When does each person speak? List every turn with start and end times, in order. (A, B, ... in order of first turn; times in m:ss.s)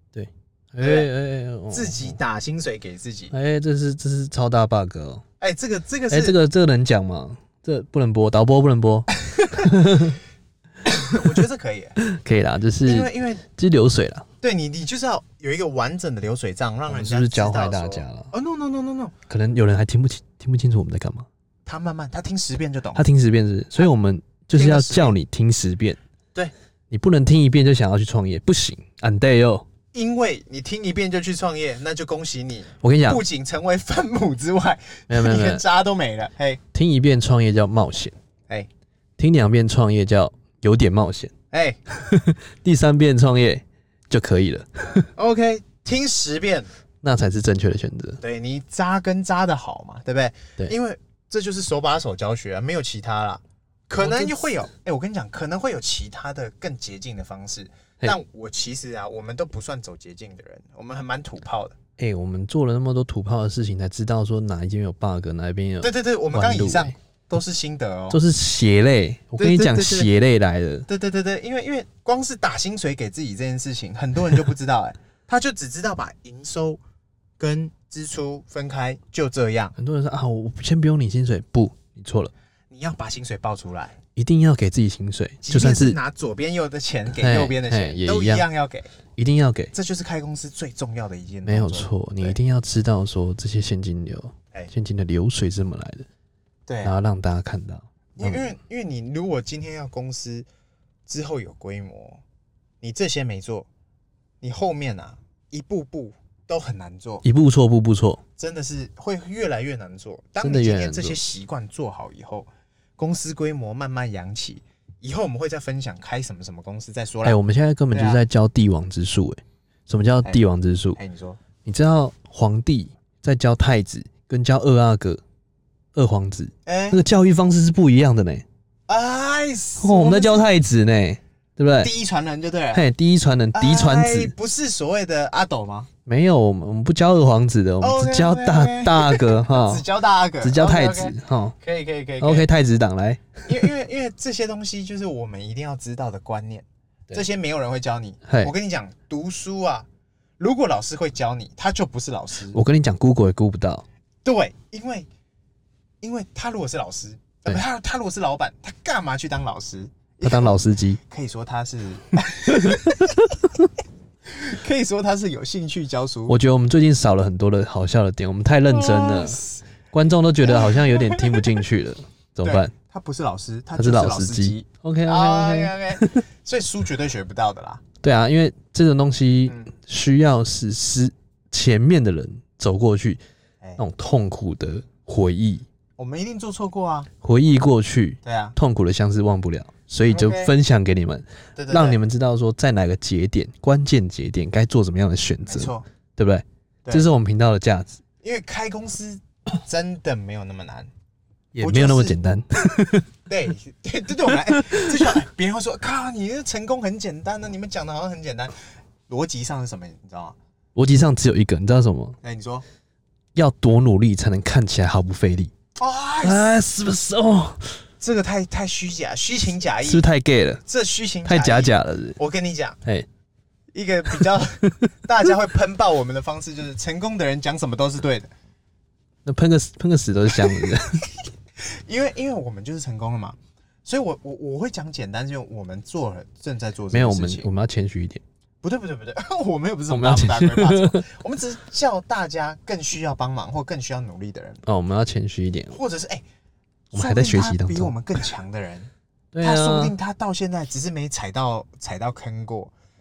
0:00.1-0:02.2 A
0:00.8-0:01.1 B
0:01.7-0:03.3 B
0:03.3-0:05.2 A
0:05.4-0:06.4 B
0:06.1-0:10.2 A
0:09.2-0:10.1 B
0:10.8-0:12.0 B
0:12.0-0:14.3 A
0:12.8-0:13.4 B
0:14.4-0:19.2 B
0:16.9-0:18.3 A
0:19.3-0:21.3 A
0:21.7-0:23.1 B
0:23.0-0:26.0 A
0:24.5-0:25.2 B
0:26.9-0:29.7 A
0:29.9-0:36.6 B
0:32.8-0:33.2 A
0:35.1-0:35.6 A
0:36.7-0:38.2 A
0:39.2-0:41.3 A
0:41.5-0:41.9 B
0:42.1-0:45.1 A
0:45.2-0:46.7 B
0:47.0-0:48.2 A
0:48.2-1:01.8 B
0:54.0-0:54.6 A
1:02.0-1:06.9 A
1:05.8-1:08.2 B
1:08.1-1:10.9 A
1:09.4-1:10.1 B
1:10.9-1:16.8 B
1:17.4-1:19.8 B
1:19.8-1:22.3 A
1:22.7-1:24.0 B
1:24.2-1:26.0 A
1:25.4-1:28.9 B
1:27.1-1:28.5 A
1:29.2-1:29.7 A
1:29.7-1:32.4 B
1:31.4-1:36.1 A
1:36.7-1:37.0 B
1:36.8-1:38.5 A
1:38.2-1:40.5 B
1:41.1-1:42.2 B
1:42.8-1:43.7 B
1:44.4-1:47.2 B
1:47.2-1:48.2 A
1:48.4-1:57.4 B
1:50.4-1:51.2 A
1:57.2-2:01.0 A
1:57.9-1:58.2 B
2:01.0-2:01.4 B
2:01.6-2:05.2 A
2:06.0-2:08.4 A
2:06.7-2:07.0 B
2:08.9-2:10.5 B
2:09.8-2:11.9 A
2:11.7-2:12.8 B
2:12.7-2:14.3 A
2:13.5-2:15.9 B
2:16.1-2:19.9 A
2:17.8-2:22.5 B
2:20.4-2:21.6 A
2:22.2-2:23.6 A
2:23.5-2:29.9 B
2:28.3-2:28.5 A
2:30.4-2:32.6 B
2:32.5-2:33.9 A
2:34.2-2:35.1 B
2:36.0-2:43.5 B
2:40.2-2:41.0 A
2:42.6-2:43.2 A
2:44.3-2:46.4 B
2:46.3-2:52.7 A
2:48.7-2:49.7 B
2:50.4-2:51.6 B
2:52.4-2:57.8 B
2:53.8-2:56.2 A
2:58.0-3:03.2 A
2:59.5-2:59.7 B
3:03.8-3:05.7 A
3:06.0-3:07.1 B
3:07.2-3:18.0 A
3:08.2-3:08.6 B
3:10.1-3:10.5 B
3:11.6-3:12.0 B
3:15.5-3:15.8 B
3:18.2-3:20.9 B
3:21.5-3:23.1 A
3:21.6-3:22.2 B
3:23.3-3:28.5 B
3:24.5-3:25.1 A
3:29.1-3:30.4 B
3:30.8-3:32.2 A
3:32.2-3:32.6 B
3:33.4-3:35.5 A
3:35.8-3:36.5 B
3:36.2-3:37.8 A
3:38.0-3:40.1 B
3:39.8-3:40.6 A
3:40.7-3:42.8 B
3:41.3-3:42.2 A
3:43.7-3:48.3 B
3:49.2-3:51.0 A
3:50.4-3:57.5 B
3:56.9-3:58.2 A
3:58.6-4:04.6 B
3:59.9-4:01.1 A
4:04.6-4:05.8 A
4:05.7-4:06.2 B
4:06.9-4:07.9 A
4:06.9-4:08.9 B
4:09.3-4:10.0 A
4:09.4-4:12.7 B